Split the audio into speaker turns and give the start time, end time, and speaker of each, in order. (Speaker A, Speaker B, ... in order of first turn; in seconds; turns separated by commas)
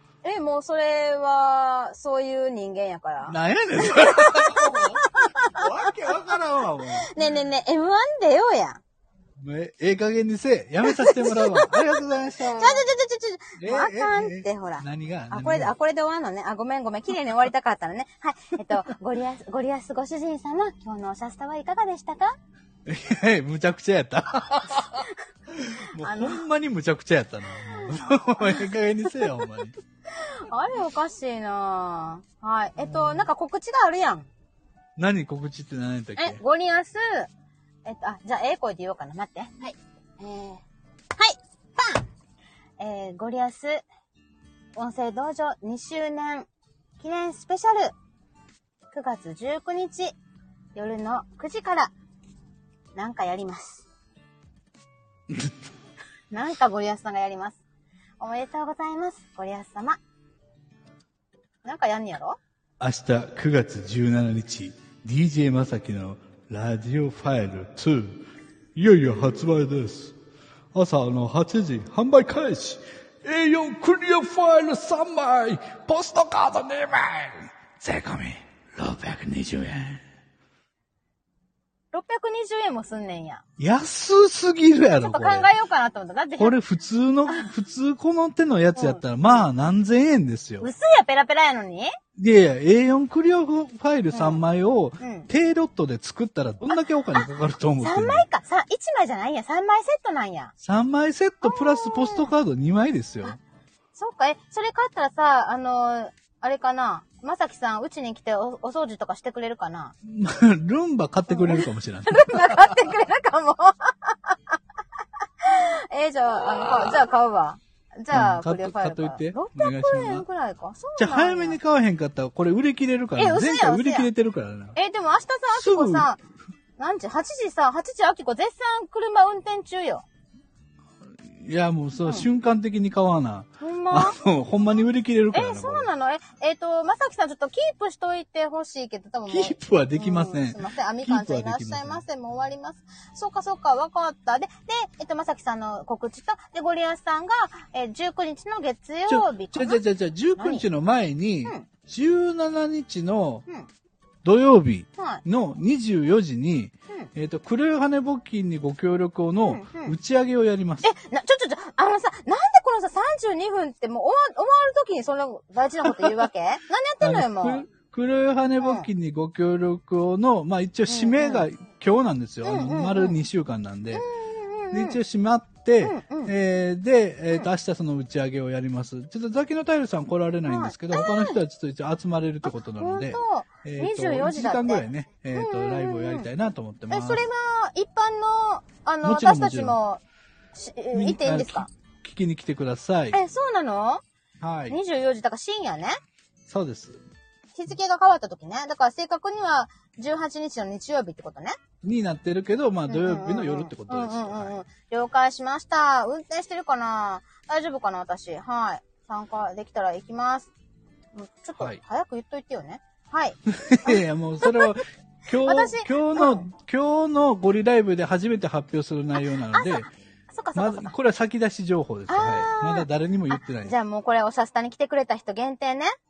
Speaker A: 0.2-6.3, Speaker B: 3.3-7.4, Speaker A: 7.1-8.8, Speaker B: 9.4-12.9, Speaker A: 10.8-22.3, Speaker B: 13.6-15.7, Speaker B: 22.9-29.7, Speaker A: 26.0-26.4, Speaker A: 27.7-28.6, Speaker A: 30.1-34.3, Speaker B: 32.8-33.3, Speaker B: 35.0-36.4, Speaker A: 36.2-37.3, Speaker A: 37.9-40.6, Speaker A: 41.2-42.0, Speaker A: 42.8-43.9, Speaker A: 44.8-46.5, Speaker A: 47.0-47.9, Speaker A: 48.9-50.1, Speaker A: 50.8-51.9, Speaker A: 53.0-53.9, Speaker A: 56.3-57.6, Speaker A: 58.2-60.0, Speaker A: 61.6-62.4, Speaker B: 62.8-68.2, Speaker B: 68.8-70.2, Speaker B: 70.7-80.0, Speaker A: 81.9-83.4, Speaker B: 83.6-85.5, Speaker A: 84.9-86.6, Speaker B: 86.4-90.7, Speaker A: 88.8-89.5, Speaker A: 90.6-91.9, Speaker B: 92.2-98.2, Speaker A: 94.1-94.4, Speaker A: 95.0-95.3, Speaker A: 97.8-100.5, Speaker B: 100.6-103.4, Speaker A: 101.4-102.3, Speaker A: 104.0-109.9, Speaker B: 110.0-112.8, Speaker A: 111.3-114.5, Speaker A: 115.4-121.6, Speaker B: 116.6-117.0, Speaker B: 118.1-120.2, Speaker B: 121.0-124.8, Speaker A: 123.2-124.1, Speaker A: 124.8-126.2, Speaker B: 125.5-126.1, Speaker A: 126.8-130.1, Speaker B: 131.2-135.9, Speaker A: 133.6-134.2, Speaker A: 135.3-149.8, Speaker B: 139.3-142.0, Speaker B: 149.1-153.4, Speaker A: 150.4-150.7, Speaker B: 154.2-160.9, Speaker A: 155.0-155.2, Speaker A: 159.4-160.0, Speaker A: 160.8-167.7, Speaker B: 165.8-166.3, Speaker B: 167.0-174.1, Speaker A: 168.6-168.9, Speaker A: 170.9-171.5, Speaker A: 172.4-173.2, Speaker A: 173.9-175.0, Speaker B: 174.7-187.2, Speaker A: 175.8-176.3, Speaker A: 180.5-181.4, Speaker A: 182.5-186.3, Speaker A: 186.9-190.0, Speaker B: 189.0-189.8, Speaker A: 190.5-191.7, Speaker B: 190.9-193.2, Speaker A: 193.1-194.0, Speaker B: 194.4-194.8, Speaker A: 194.7-196.0, Speaker B: 196.5-197.0, Speaker A: 197.6-201.6, Speaker B: 201.8-204.6, Speaker A: 202.9-210.5, Speaker A: 211.2-214.8, Speaker B: 213.5-219.9, Speaker A: 215.3-216.5, Speaker A: 219.5-220.9, Speaker B: 220.6-223.8, Speaker A: 222.1-225.9